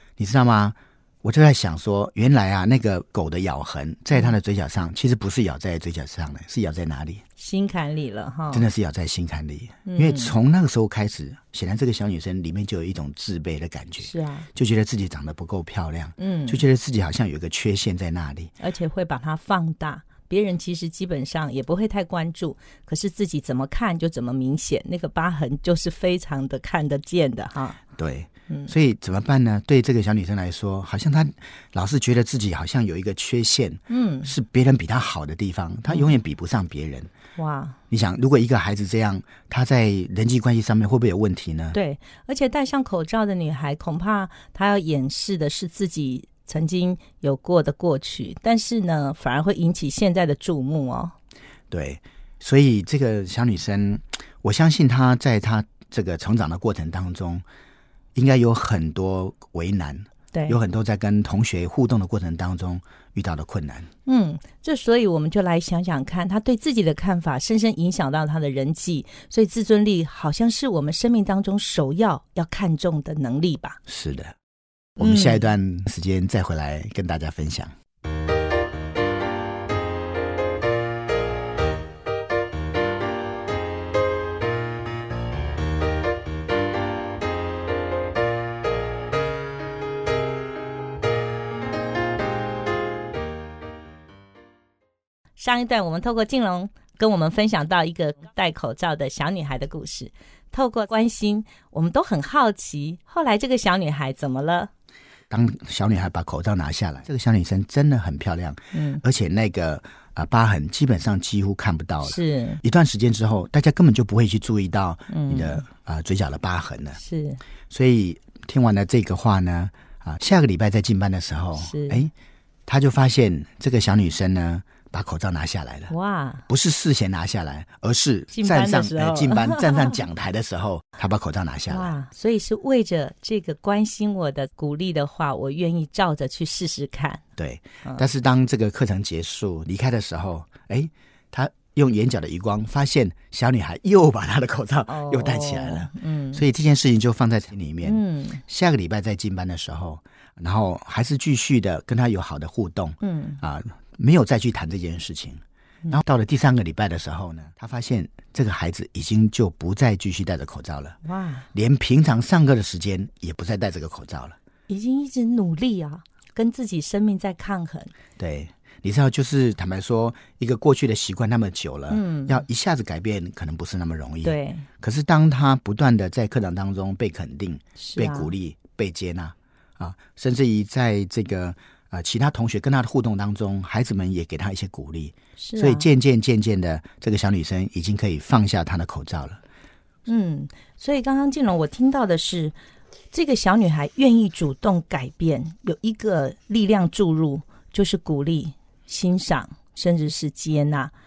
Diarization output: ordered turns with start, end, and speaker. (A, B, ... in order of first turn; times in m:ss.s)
0:00.2-0:07.2 A
0:07.4-0:08.6 B
0:08.5-0:18.5 A
0:09.8-0:10.3 B
0:14.0-0:14.5 B
0:16.2-0:16.6 B
0:18.6-0:27.8 B
0:28.0-0:37.1 A
0:33.9-0:34.3 B
0:37.4-0:37.8 B
0:37.9-0:41.8 A
0:41.7-0:51.1 B
0:51.7-0:57.4 A
0:58.1-1:03.9 A
1:00.3-1:00.6 B
1:04.0-1:13.8 B
1:13.9-1:14.3 A
1:15.0-1:17.7 A
1:15.0-1:15.4 B
1:35.4-1:44.7 B
1:45.3-1:57.0 A
1:48.7-1:49.0 B
1:52.0-1:52.6 B
1:55.1-1:55.6 B
1:57.0-1:57.4 B
1:57.7-2:02.1 A
2:01.6-2:02.0 B
2:02.7-2:05.9 A
2:05.9-2:06.4 B
2:06.5-2:11.9 A
2:08.3-2:10.0 B
2:11.7-2:17.2 B
2:17.4-2:41.0 A
2:24.9-2:26.4 B
2:27.8-2:28.4 B
2:33.0-2:33.4 B
2:41.0-2:41.5 B
2:41.5-2:44.4 A
2:44.7-2:47.9 B
2:48.2-3:09.4 A
2:51.9-2:52.4 B
2:54.2-2:54.6 B
2:57.8-2:58.3 B
3:05.4-3:05.9 B
3:10.0-3:12.5 B
3:13.1-3:20.9 B